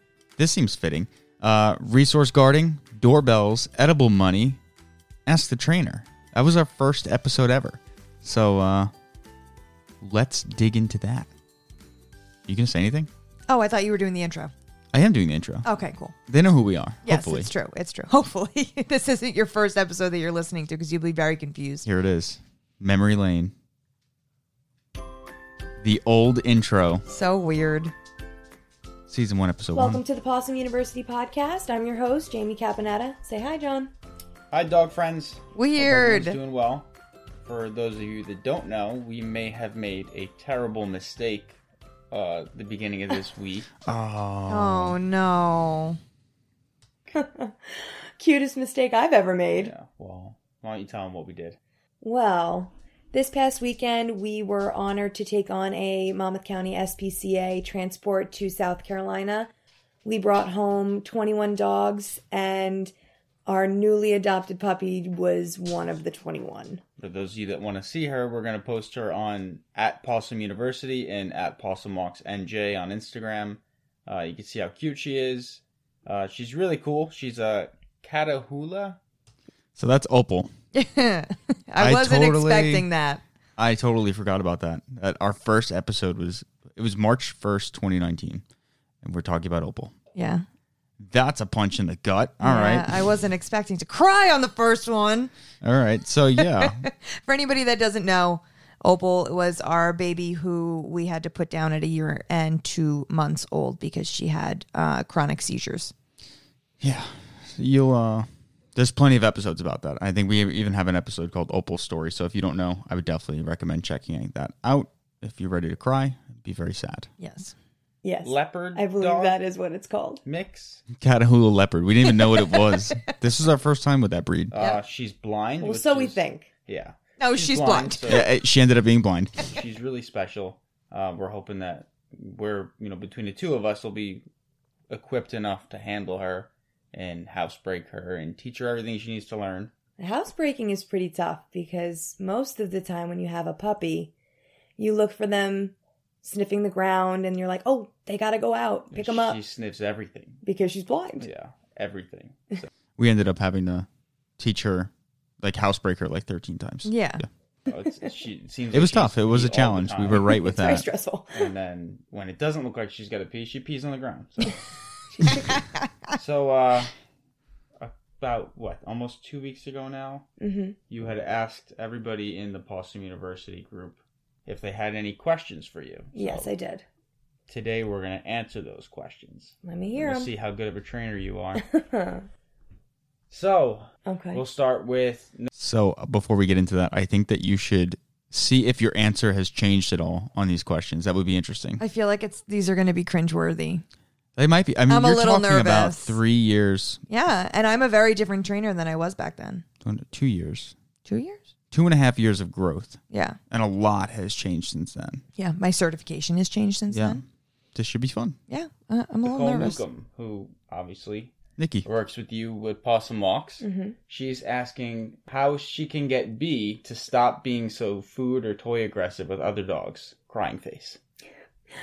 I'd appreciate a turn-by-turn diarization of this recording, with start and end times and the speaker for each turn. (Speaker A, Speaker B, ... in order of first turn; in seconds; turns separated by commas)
Speaker A: 0.4-4.6, Speaker A: 5.3-8.9, Speaker A: 10.0-11.3, Speaker A: 12.5-13.1, Speaker B: 13.5-14.5, Speaker A: 14.9-15.7, Speaker B: 15.6-16.1, Speaker A: 16.3-17.5, Speaker B: 17.1-21.9, Speaker A: 21.9-23.5, Speaker A: 25.8-27.0, Speaker B: 27.1-27.9, Speaker A: 29.1-30.0, Speaker C: 29.7-33.9, Speaker D: 34.5-36.9, Speaker B: 35.5-36.4, Speaker D: 37.5-41.6, Speaker D: 42.1-43.7, Speaker A: 43.8-45.0, Speaker B: 44.5-46.0, Speaker C: 47.1-49.7, Speaker D: 49.5-51.6, Speaker C: 52.0-59.5, Speaker C: 60.0-62.9, Speaker C: 63.5-66.8, Speaker D: 67.0-79.0, Speaker A: 79.8-80.5, Speaker B: 80.7-83.2, Speaker A: 81.8-82.9, Speaker A: 83.6-88.4, Speaker A: 89.0-89.9, Speaker B: 90.2-90.4, Speaker A: 91.0-93.0, Speaker B: 92.4-95.3, Speaker A: 95.6-96.8, Speaker B: 96.4-105.9, Speaker A: 106.8-117.1, Speaker B: 117.2-117.5, Speaker C: 118.0-120.2, Speaker D: 118.2-119.4, Speaker D: 120.2-120.8, Speaker A: 120.9-124.5, Speaker D: 124.5-128.2, Speaker B: 124.6-124.8, Speaker C: 125.6-126.5, Speaker B: 127.2-128.1, Speaker A: 128.1-129.3, Speaker D: 129.4-134.2, Speaker D: 134.9-139.7, Speaker C: 140.0-144.1, Speaker C: 144.8-149.4, Speaker D: 148.9-150.4, Speaker C: 150.4-151.3, Speaker D: 151.2-152.7, Speaker A: 153.0-153.9, Speaker A: 154.4-157.2, Speaker B: 156.8-157.2, Speaker D: 157.7-160.4, Speaker A: 158.7-160.8, Speaker C: 160.2-161.5, Speaker D: 161.3-164.6, Speaker C: 165.2-165.6, Speaker D: 165.2-165.6, Speaker B: 165.6-165.8, Speaker D: 166.1-166.9, Speaker D: 167.8-170.3, Speaker C: 170.4-170.8, Speaker D: 170.9-176.5, Speaker C: 176.1-176.8, Speaker D: 177.5-181.6, Speaker C: 179.7-180.3, Speaker C: 181.6-182.2, Speaker D: 183.3-185.5, Speaker C: 184.1-184.4, Speaker A: 185.5-191.8, Speaker B: 191.8-193.8, Speaker A: 194.4-197.0, Speaker B: 194.9-196.2, Speaker B: 197.1-199.7, Speaker A: 199.8-200.7, Speaker B: 201.1-201.4, Speaker A: 201.7-203.0, Speaker B: 203.1-203.4, Speaker A: 203.5-205.2, Speaker B: 205.4-207.2, Speaker A: 206.9-207.2, Speaker A: 207.8-208.4, Speaker B: 208.5-209.8, Speaker D: 209.2-221.0, Speaker A: 211.6-211.9, Speaker C: 213.6-213.9